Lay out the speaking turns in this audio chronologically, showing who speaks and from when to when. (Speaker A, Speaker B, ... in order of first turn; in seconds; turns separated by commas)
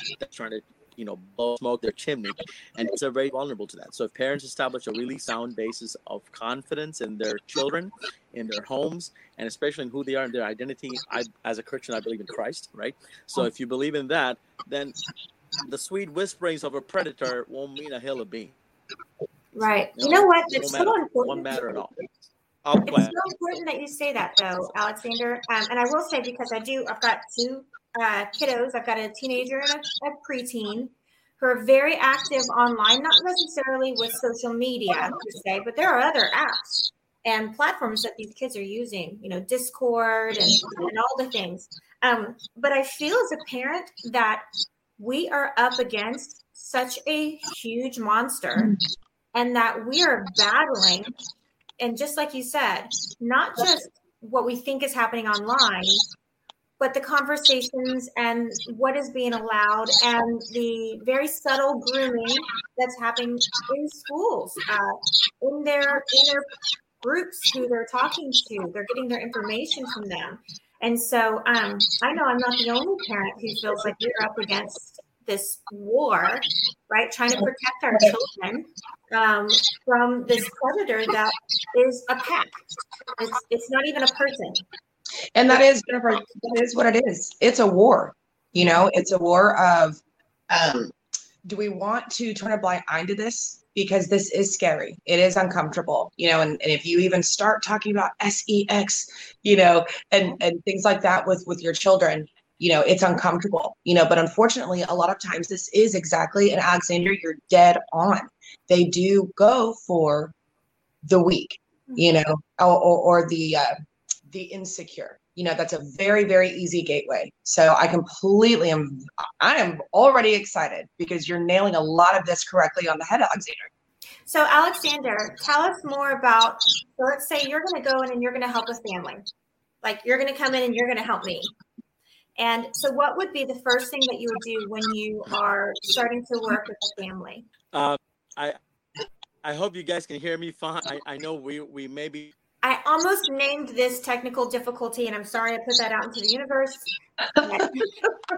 Speaker A: 0.2-15.0, Speaker A: 15.6-18.6, Speaker B: 19.5-21.5, Speaker A: 19.9-23.1, Speaker B: 22.8-44.4, Speaker B: 45.0-48.7, Speaker B: 49.3-51.1, Speaker B: 51.8-56.0, Speaker B: 56.8-66.5, Speaker B: 67.0-82.6, Speaker B: 83.1-84.6, Speaker C: 85.3-110.3, Speaker C: 111.0-113.7, Speaker C: 114.3-123.7, Speaker B: 124.3-129.2, Speaker B: 129.8-131.5, Speaker B: 132.4-137.4, Speaker A: 137.7-138.6, Speaker A: 139.4-142.3, Speaker B: 142.6-147.9